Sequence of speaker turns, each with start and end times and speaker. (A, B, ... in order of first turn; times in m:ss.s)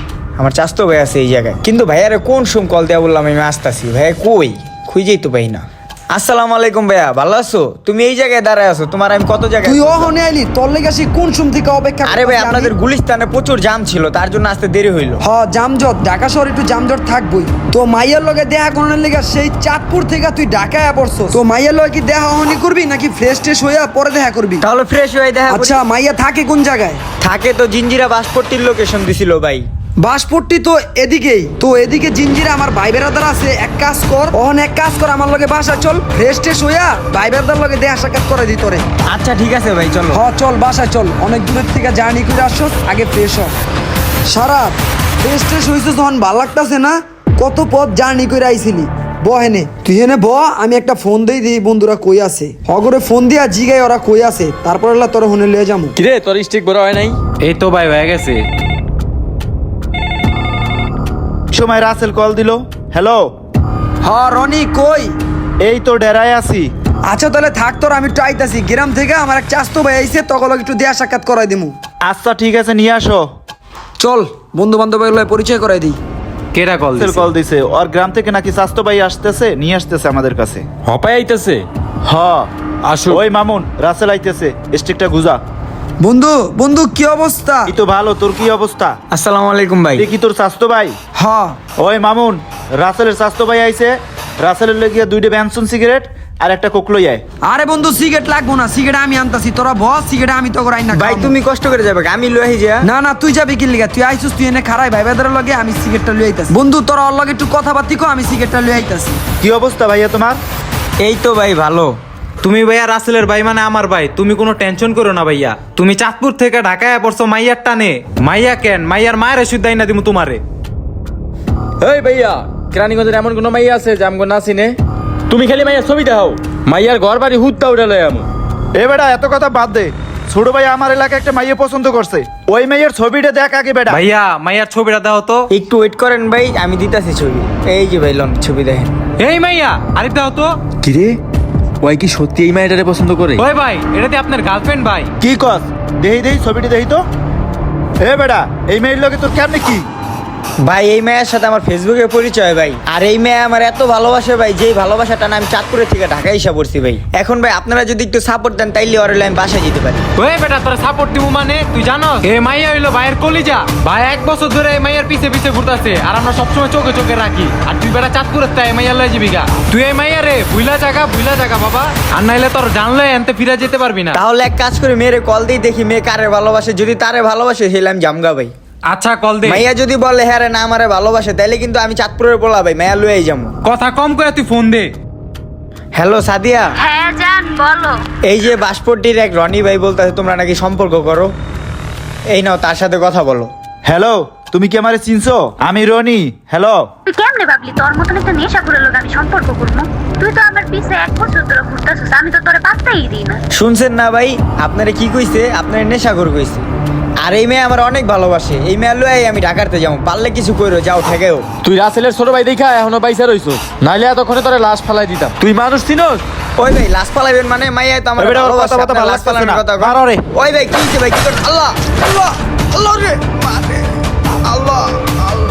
0:00.4-0:10.1 A
0:09.6-0:12.7 B
0:12.0-0:15.2 A
0:15.2-0:24.6 B
0:24.6-0:25.8 A
0:25.5-0:27.0 B
0:27.2-0:29.6 A
0:30.0-0:38.8 B
0:39.1-0:40.2 A
0:40.1-0:43.5 B
0:44.3-0:55.9 B
0:56.0-0:57.2 C
0:57.4-0:58.4 D
1:01.5-1:03.3 E
1:04.0-1:05.1 B
1:05.6-1:06.7 E
1:07.0-1:11.8 B
1:12.0-1:13.2 E
1:14.0-1:16.0 B
1:16.5-1:17.3 D
1:17.0-1:20.6 E
1:20.8-1:21.6 C
1:22.0-1:22.5 E
1:22.9-1:23.2 C
1:23.1-1:25.4 E
1:26.0-1:27.7 B
1:27.7-1:29.0 E
1:29.1-1:30.1 A
1:30.0-1:31.0 E
1:31.2-1:31.6 B
1:31.8-1:37.2 E
1:37.4-1:41.3 B
1:40.9-1:42.8 A
1:42.8-1:49.2 B
1:49.4-1:50.4 E
1:51.0-1:52.0 A
1:52.4-2:00.4 D
2:01.8-2:04.8 C
2:05.3-2:08.2 C
2:08.8-2:14.0 E
2:13.9-2:15.5 D
2:15.5-2:18.9 A
2:19.2-2:20.5 D
2:20.8-2:21.2 C
2:21.8-2:23.4 C
2:23.4-2:25.1 D
2:25.2-2:27.0 E
2:28.0-2:29.8 E
2:30.6-2:40.0 A
2:40.2-2:54.2 D
2:54.1-2:58.5 A
2:58.9-2:59.6 D
2:59.4-3:03.5 A
3:03.6-3:04.9 D
3:05.9-3:06.8 A
3:06.8-3:08.0 F
3:08.2-3:11.3 A
3:12.3-3:13.5 A
3:13.8-3:16.9 E
3:17.1-3:23.4 F
3:23.5-3:26.6 A
3:27.2-3:31.4 A
3:31.6-3:36.2 C
3:36.6-3:41.9 A
3:38.2-3:40.2 E
3:43.0-3:43.4 B
3:44.6-3:44.9 A